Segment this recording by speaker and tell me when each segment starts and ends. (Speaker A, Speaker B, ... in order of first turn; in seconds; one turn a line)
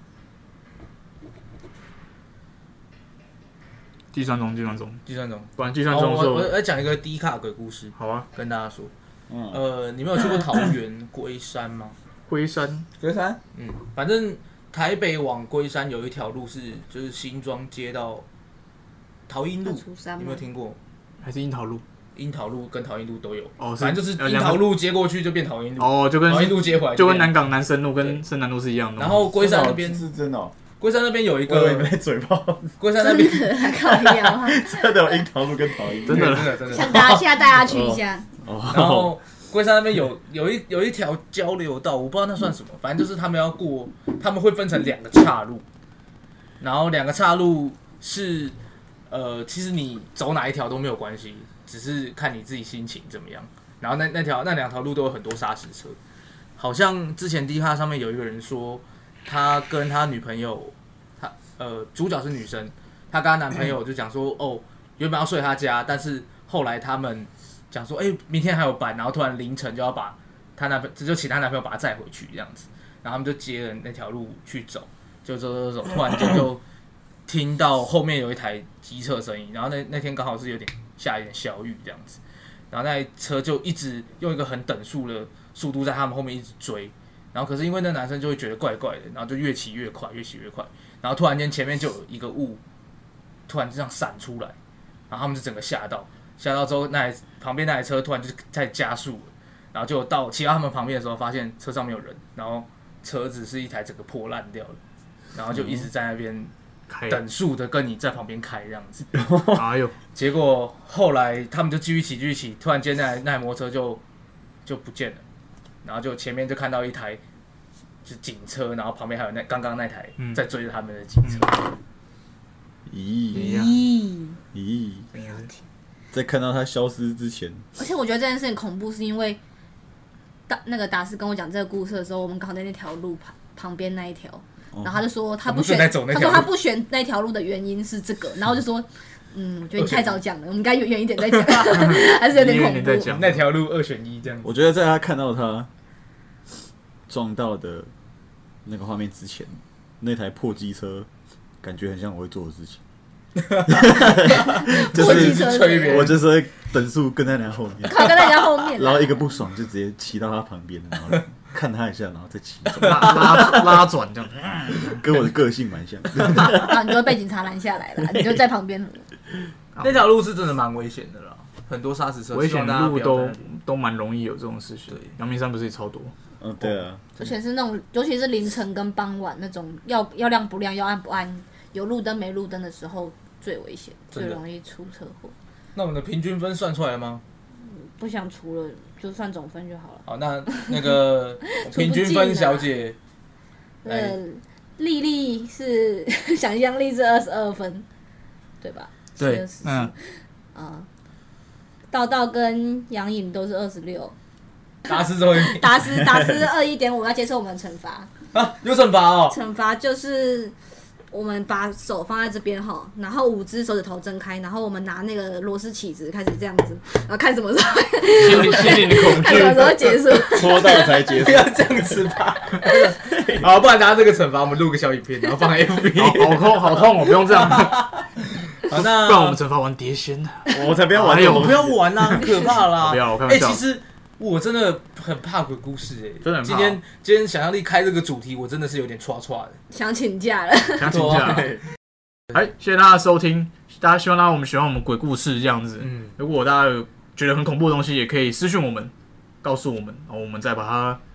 Speaker A: 4.1-5.0
Speaker B: 5.1-8.9
Speaker A: 5.6-6.6
Speaker A: 8.0-8.3
Speaker C: 9.3-9.6
Speaker B: 9.5-12.0
Speaker A: 12.3-12.9
Speaker C: 13.0-13.4
Speaker B: 13.5-18.2
Speaker B: 19.3-20.8
Speaker D: 19.6-20.4
Speaker A: 21.2-21.8
Speaker B: 22.2-27.3
Speaker A: 23.6-24.8
Speaker A: 25.8-29.3
Speaker B: 29.0-30.0
Speaker C: 29.3-30.6
Speaker B: 30.8-31.9
Speaker C: 31.5-32.8
Speaker B: 32.8-33.7
Speaker D: 33.0-35.1
Speaker C: 33.8-36.5
Speaker A: 36.1-36.9
Speaker B: 36.1-37.3
Speaker D: 36.6-38.3
Speaker C: 37.6-39.2
Speaker B: 38.7-45.6
Speaker B: 46.6-48.6
Speaker B: 49.1-56.0
Speaker B: 56.6-76.6
Speaker B: 77.3-82.2
Speaker B: 82.7-92.6
Speaker B: 93.5-94.6
Speaker B: 95.1-104.8
Speaker B: 105.3-106.5
Speaker A: 106.9-107.2
Speaker B: 107.1-109.2
Speaker C: 109.1-109.7
Speaker A: 109.5-110.0
Speaker B: 110.1-114.0
Speaker B: 114.7-115.2
Speaker B: 115.8-117.2
Speaker B: 118.0-121.7
Speaker C: 122.9-123.7
Speaker D: 123.3-124.4
Speaker A: 123.3-123.8
Speaker C: 124.5-125.1
Speaker A: 125.1-125.5
Speaker D: 125.3-125.5
Speaker C: 126.1-127.6
Speaker D: 127.8-129.4
Speaker D: 130.5-143.1
Speaker C: 134.7-135.0
Speaker B: 135.4-136.6
Speaker B: 139.8-140.2
Speaker A: 141.7-143.5
Speaker B: 143.0-144.5
Speaker C: 144.4-145.7
Speaker C: 147.1-147.9
Speaker C: 148.7-151.1
Speaker C: 151.6-152.8
Speaker B: 153.4-156.2
Speaker C: 153.7-163.8
Speaker D: 154.4-156.2
Speaker D: 157.9-159.2
Speaker A: 162.8-165.1
Speaker B: 162.8-163.6
Speaker C: 164.8-166.8
Speaker D: 166.3-169.1
Speaker A: 169.8-170.1
Speaker B: 169.8-173.4
Speaker A: 172.3-176.1
Speaker C: 176.4-177.0
Speaker D: 177.2-185.3
Speaker B: 184.1-184.4
Speaker B: 185.8-187.2
Speaker D: 187.6-192.7
Speaker B: 190.1-193.0
Speaker D: 193.8-197.9
Speaker B: 193.8-194.2
Speaker D: 198.6-200.9
Speaker B: 199.2-199.4
Speaker A: 199.6-199.9
Speaker D: 201.9-204.2
Speaker B: 204.9-206.0
Speaker D: 204.9-208.1
Speaker B: 208.3-209.4
Speaker D: 209.3-210.6
Speaker D: 211.1-220.8
Speaker A: 218.2-220.0
Speaker C: 220.3-222.0
Speaker B: 220.4-228.0
Speaker C: 222.7-223.5
Speaker A: 225.9-228.0
Speaker B: 228.6-229.4
Speaker A: 228.6-233.6
Speaker C: 230.5-232.0
Speaker B: 230.9-239.6
Speaker A: 236.2-236.8
Speaker D: 239.7-241.0
Speaker A: 240.8-241.6
Speaker B: 240.9-241.6
Speaker A: 242.3-248.9
Speaker B: 245.8-246.2
Speaker A: 249.4-251.0